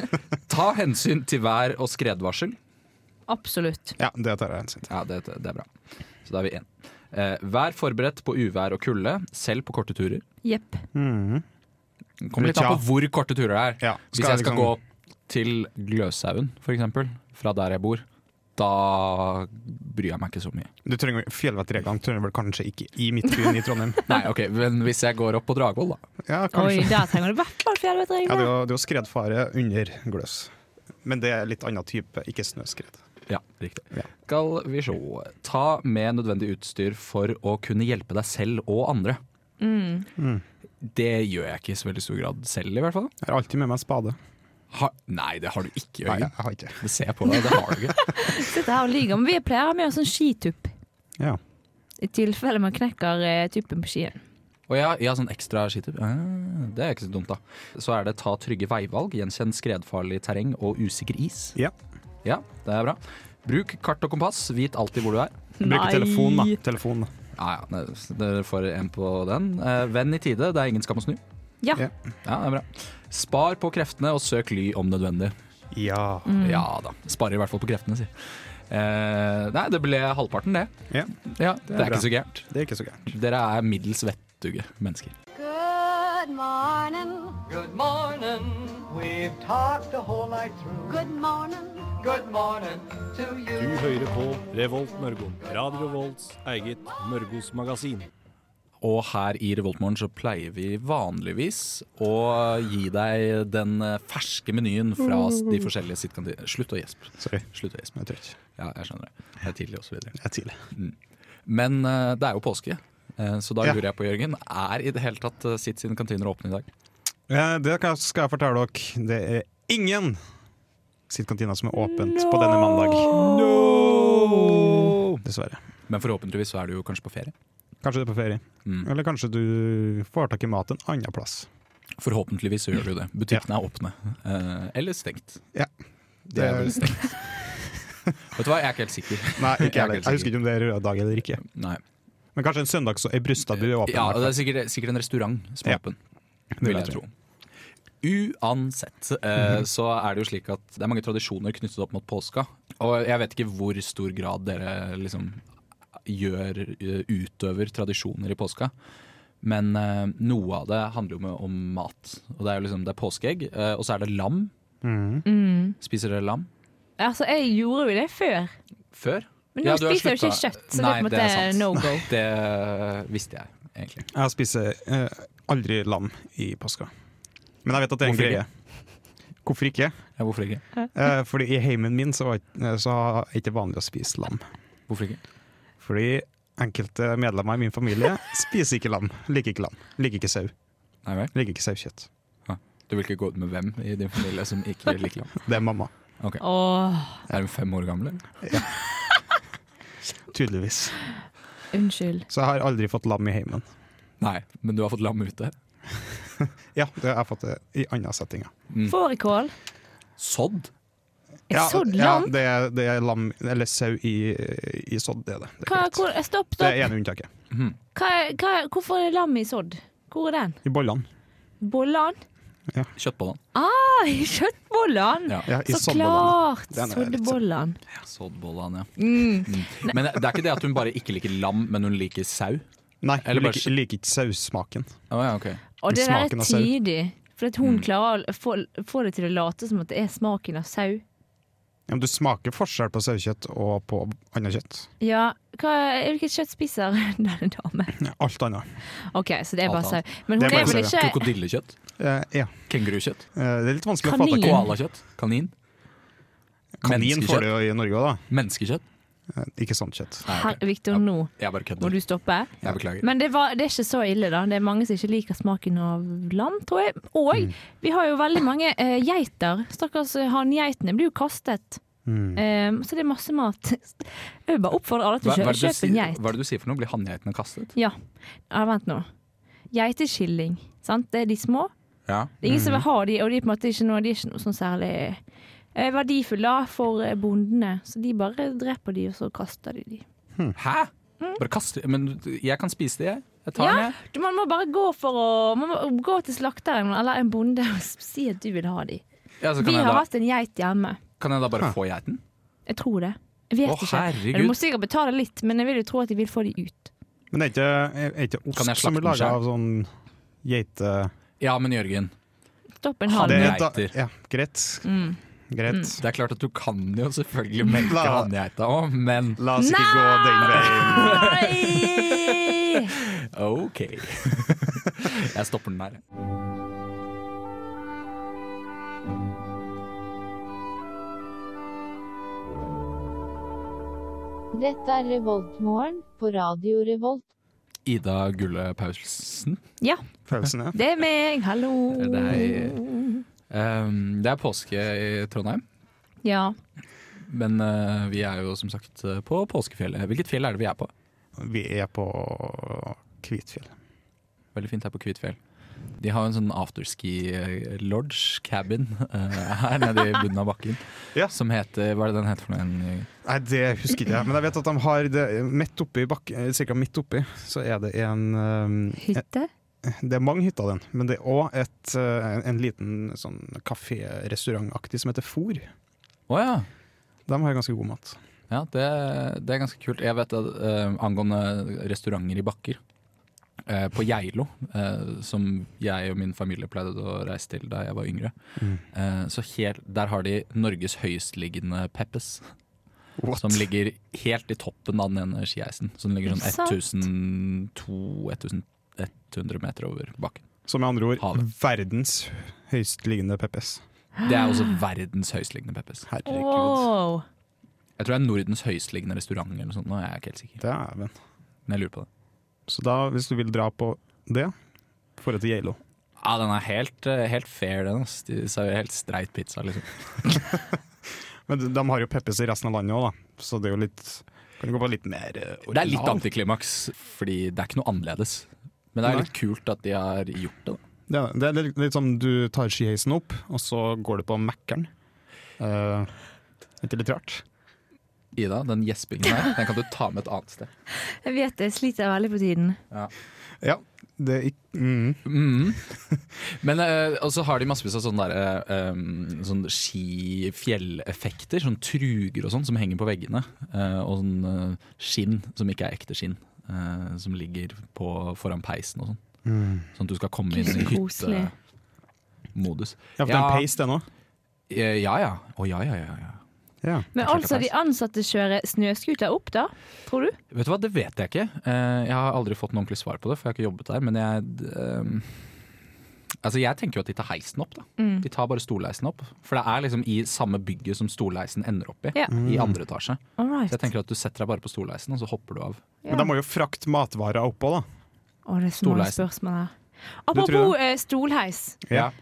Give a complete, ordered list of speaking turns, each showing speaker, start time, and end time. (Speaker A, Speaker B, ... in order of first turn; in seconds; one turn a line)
Speaker A: 0.5-2.5
Speaker B: 3.3-4.0
Speaker C: 4.0-4.9
Speaker A: 4.9-5.7
Speaker A: 6.2-10.2
Speaker B: 10.4-10.8
Speaker C: 10.9-11.4
Speaker A: 12.2-18.0
Speaker C: 12.4-12.8
Speaker C: 13.8-14.7
Speaker A: 18.6-20.7
Speaker C: 20.8-24.0
Speaker A: 24.1-26.0
Speaker C: 26.2-27.2
Speaker B: 26.5-28.5
Speaker C: 28.2-30.5
Speaker C: 31.0-33.0
Speaker A: 33.3-39.2
Speaker B: 39.6-40.1
Speaker C: 40.2-40.4
Speaker A: 40.8-43.1
Speaker C: 43.2-44.2
Speaker A: 44.7-48.0
Speaker C: 46.1-46.8
Speaker B: 47.9-50.7
Speaker B: 52.0-54.2
Speaker A: 54.7-61.5
Speaker A: 62.2-65.3
Speaker B: 65.6-66.6
Speaker C: 65.6-67.1
Speaker A: 67.4-71.2
Speaker A: 72.2-75.3
Speaker C: 75.7-76.3
Speaker B: 76.2-76.6
Speaker A: 76.4-80.7
Speaker A: 81.2-82.5
Speaker C: 81.7-83.1
Speaker A: 83.1-85.1
Speaker D: 85.3-87.4
Speaker E: 87.5-91.0
Speaker D: 90.9-92.0
Speaker E: 92.0-93.7
Speaker F: 93.5-98.1
Speaker A: 98.8-108.0
Speaker C: 107.2-108.3
Speaker A: 108.5-110.2
Speaker C: 110.2-110.5
Speaker A: 111.5-116.7
Speaker C: 117.3-120.2
Speaker C: 121.1-125.6
Speaker A: 121.9-125.2
Speaker A: 125.9-127.3
Speaker C: 127.8-131.5
Speaker A: 132.0-135.4
Speaker A: 136.3-137.1
Speaker C: 136.3-137.6
Speaker A: 138.3-140.3
Speaker C: 139.4-141.4
Speaker A: 141.5-141.8
Speaker C: 142.3-144.4
Speaker A: 143.8-146.0
Speaker C: 146.5-147.0
Speaker A: 146.6-147.1
Speaker A: 148.0-155.4
Speaker A: 156.0-158.7
Speaker A: 159.4-164.5
Speaker C: 164.8-165.2
Speaker B: 165.2-165.8
Speaker A: 165.8-166.5
Speaker B: 167.0-168.5
Speaker A: 168.9-174.1
Speaker B: 169.6-172.1
Speaker C: 174.1-176.9
Speaker C: 177.6-178.5
Speaker A: 178.0-178.4
Speaker C: 179.4-180.0
Speaker A: 180.2-180.6
Speaker C: 180.9-184.4
Speaker A: 184.9-185.2
Speaker C: 185.8-190.5
Speaker A: 191.1-191.3
Speaker C: 191.3-192.1
Speaker A: 192.5-195.4
Speaker C: 195.4-195.9
Speaker B: 196.4-197.2
Speaker A: 197.3-198.2
Speaker C: 200.3-201.0
Speaker B: 201.7-202.2
Speaker C: 202.3-203.7
Speaker A: 204.2-205.5
Speaker C: 206.4-208.5
Speaker A: 208.7-208.9
Speaker B: 208.8-209.5
Speaker A: 210.2-210.7
Speaker B: 211.5-212.3
Speaker C: 211.5-216.0
Speaker B: 215.6-216.9
Speaker C: 216.6-217.3
Speaker A: 217.5-217.8
Speaker B: 217.9-220.6
Speaker C: 220.6-221.0
Speaker B: 221.6-222.2
Speaker A: 223.0-223.4
Speaker B: 223.5-227.8
Speaker C: 225.5-227.4
Speaker A: 228.0-232.6
Speaker B: 229.0-229.9
Speaker C: 233.0-234.9
Speaker A: 233.2-233.7
Speaker A: 235.1-235.6
Speaker B: 235.8-241.0
Speaker C: 235.9-236.7
Speaker C: 241.9-244.9
Speaker B: 245.0-248.0
Speaker C: 248.0-248.6
Speaker B: 249.1-251.2
Speaker A: 249.6-251.8
Speaker C: 250.4-250.9
Speaker C: 252.0-252.5
Speaker A: 252.7-253.2
Speaker C: 253.3-254.7
Speaker B: 254.0-254.6
Speaker A: 254.4-255.5
Speaker C: 256.8-258.2
Speaker A: 256.8-257.5
Speaker A: 258.3-258.8
Speaker C: 259.3-260.2
Speaker A: 260.2-261.9
Speaker B: 260.3-271.8
Speaker A: 262.6-263.1
Speaker C: 272.1-272.4
Speaker B: 272.3-276.2
Speaker A: 275.2-277.7
Speaker B: 278.5-279.1
Speaker B: 279.7-281.7
Speaker A: 282.1-282.3
Speaker B: 282.4-285.2
Speaker C: 282.4-282.8
Speaker B: 285.7-290.0
Speaker A: 290.6-293.9
Speaker B: 293.6-299.0
Speaker A: 299.4-300.0
Speaker B: 299.6-301.0
Speaker A: 301.2-302.2
Speaker B: 302.7-306.9
Speaker A: 303.6-304.6
Speaker C: 307.3-309.9
Speaker A: 308.5-309.4
Speaker C: 310.4-311.1
Speaker A: 311.4-312.1
Speaker B: 312.8-313.6
Speaker A: 313.1-313.9
Speaker C: 313.1-314.9
Speaker B: 314.8-315.2
Speaker C: 315.5-316.0
Speaker A: 316.0-319.4
Speaker C: 317.7-318.3
Speaker C: 319.4-321.3
Speaker B: 319.6-322.9
Speaker A: 320.7-326.0
Speaker G: 334.5-337.2
Speaker A: 337.9-339.6
Speaker C: 340.3-340.8
Speaker B: 340.7-343.2
Speaker A: 341.9-342.8
Speaker A: 343.5-345.6
Speaker B: 346.2-346.5
Speaker A: 347.2-350.9
Speaker C: 351.4-353.7
Speaker A: 354.5-355.4
Speaker A: 356.0-363.1
Speaker C: 363.2-369.2
Speaker B: 369.0-369.5
Speaker C: 369.8-375.7
Speaker A: 376.3-376.7
Speaker C: 377.3-378.2
Speaker A: 378.5-382.8
Speaker A: 383.6-388.3
Speaker C: 388.6-388.8
Speaker A: 388.9-392.5
Speaker C: 393.2-393.6
Speaker A: 393.4-400.4
Speaker B: 396.3-396.8
Speaker C: 400.7-403.8
Speaker A: 404.2-406.1
Speaker C: 406.1-406.7
Speaker B: 406.2-407.2
Speaker A: 408.0-410.6
Speaker C: 410.6-411.1
Speaker A: 411.7-412.1
Speaker C: 412.7-414.5
Speaker C: 415.2-415.8
Speaker A: 416.2-420.5
Speaker C: 421.5-426.2
Speaker A: 425.7-430.8
Speaker C: 429.0-429.3
Speaker C: 431.1-434.9
Speaker C: 435.6-436.1
Speaker C: 436.8-437.4
Speaker A: 438.3-440.7
Speaker B: 441.1-442.8
Speaker C: 443.6-445.2
Speaker A: 445.2-459.2
Speaker C: 459.4-459.9
Speaker A: 459.9-461.5
Speaker B: 460.5-461.5
Speaker A: 462.5-463.7
Speaker C: 463.2-464.1
Speaker A: 464.7-466.4
Speaker B: 467.1-470.4
Speaker A: 467.2-467.7
Speaker A: 470.5-475.5
Speaker A: 476.4-485.8
Speaker B: 478.0-478.2
Speaker C: 482.3-482.8
Speaker B: 483.4-483.9
Speaker B: 486.0-486.3
Speaker C: 486.1-487.9
Speaker B: 488.5-489.7
Speaker A: 488.8-489.2
Speaker B: 490.2-491.8
Speaker C: 490.3-490.7
Speaker C: 491.8-492.1